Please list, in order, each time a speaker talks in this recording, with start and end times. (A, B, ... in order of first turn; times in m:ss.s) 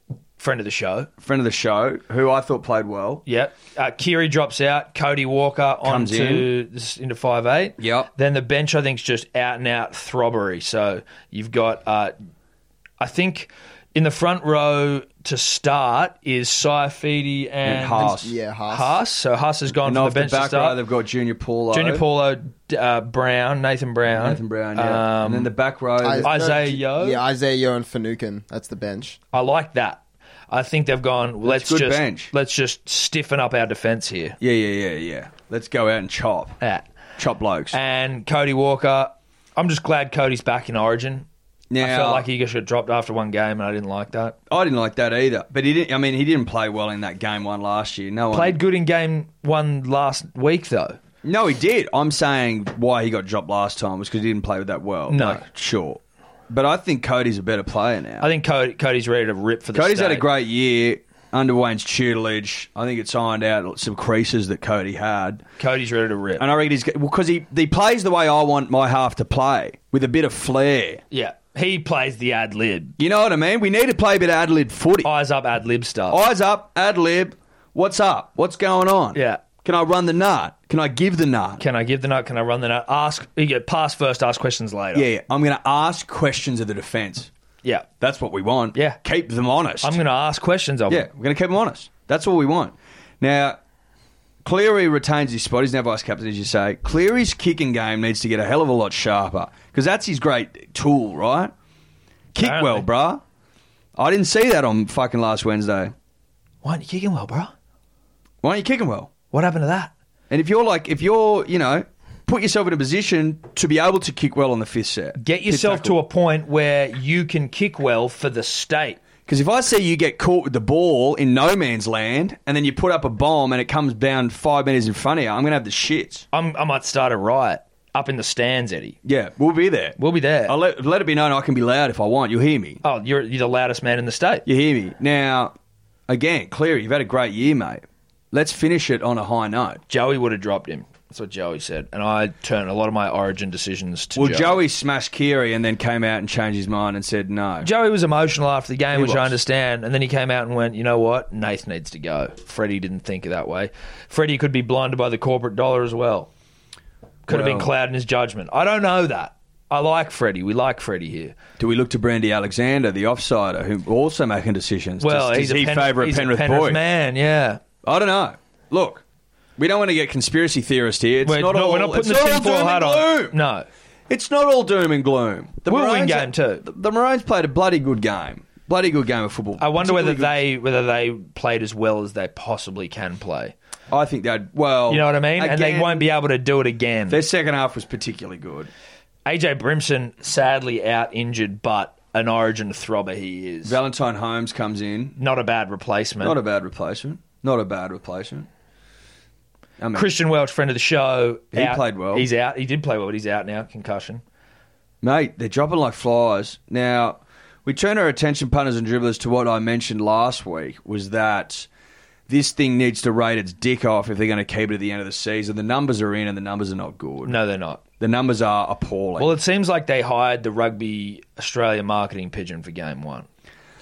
0:00.4-0:01.1 A
0:01.2-0:03.2 B
0:03.2-0:12.1 A
0:05.8-0:06.5 B
0:07.8-0:08.1 B
0:13.0-0:18.2 A
0:17.6-0:18.3 B
0:18.1-0:19.0 C
0:18.7-0:20.8 A
0:19.8-0:22.0 B
0:21.7-0:25.5 A
0:24.1-0:26.5 B
0:26.0-0:29.2 C
0:26.2-0:27.2 A
0:29.3-0:34.4 A
0:31.4-0:32.3 B
0:34.4-0:36.6 B
0:36.6-0:36.9 A
0:37.2-0:37.8 B
0:37.7-0:41.2 A
0:41.7-0:42.2 B
0:41.8-0:44.4 A
0:44.5-0:48.6 B
0:48.3-0:51.0 A
0:51.2-0:58.3 B
0:55.1-0:55.4 A
0:58.2-1:00.3 A
0:59.7-1:05.4 B
1:05.6-1:06.4 A
1:06.4-1:11.0 B
1:11.1-1:13.0 A
1:13.0-1:15.1 B
1:15.0-1:16.2 A
1:16.1-1:21.6 B
1:19.1-1:19.4 A
1:21.6-1:25.1 A
1:24.9-1:27.3 B
1:28.0-1:30.0 B
1:29.8-1:31.1 A
1:30.9-1:33.6 B
1:34.4-1:41.5 B
1:42.3-1:43.2 B
1:42.4-1:42.9 A
1:44.0-1:45.9 B
1:46.6-1:47.5 A
1:48.4-1:49.1 B
1:49.3-1:49.9 A
1:50.3-1:56.0 B
1:55.2-1:59.0 A
1:59.2-2:06.2 B
2:06.3-2:09.0 A
2:09.0-2:12.8 B
2:10.0-2:10.6 A
2:12.8-2:14.4 A
2:14.4-2:15.5 B
2:16.1-2:19.8 B
2:19.9-2:24.6 A
2:24.1-2:27.7 B
2:27.6-2:36.3 A
2:28.9-2:29.4 B
2:37.3-2:37.7 B
2:37.3-2:41.4 A
2:41.6-2:46.8 B
2:45.0-2:47.6 A
2:47.8-2:49.0 B
2:49.6-2:53.4 B
2:51.2-2:53.7 A
2:54.1-3:00.4 B
2:55.7-2:56.6 A
2:59.6-3:03.5 A
3:03.9-3:06.1 B
3:04.9-3:07.2 A
3:07.1-3:08.7 B
3:09.2-3:13.8 A
3:13.6-3:15.2 B
3:15.2-3:16.4 A
3:16.2-3:18.5 B
3:19.8-3:20.1 B
3:19.9-3:24.2 A
3:21.5-3:22.3 B
3:25.0-3:31.7 B
3:32.3-3:37.4 B
3:37.2-3:37.8 A
3:38.0-3:39.4 B
3:39.2-3:43.3 A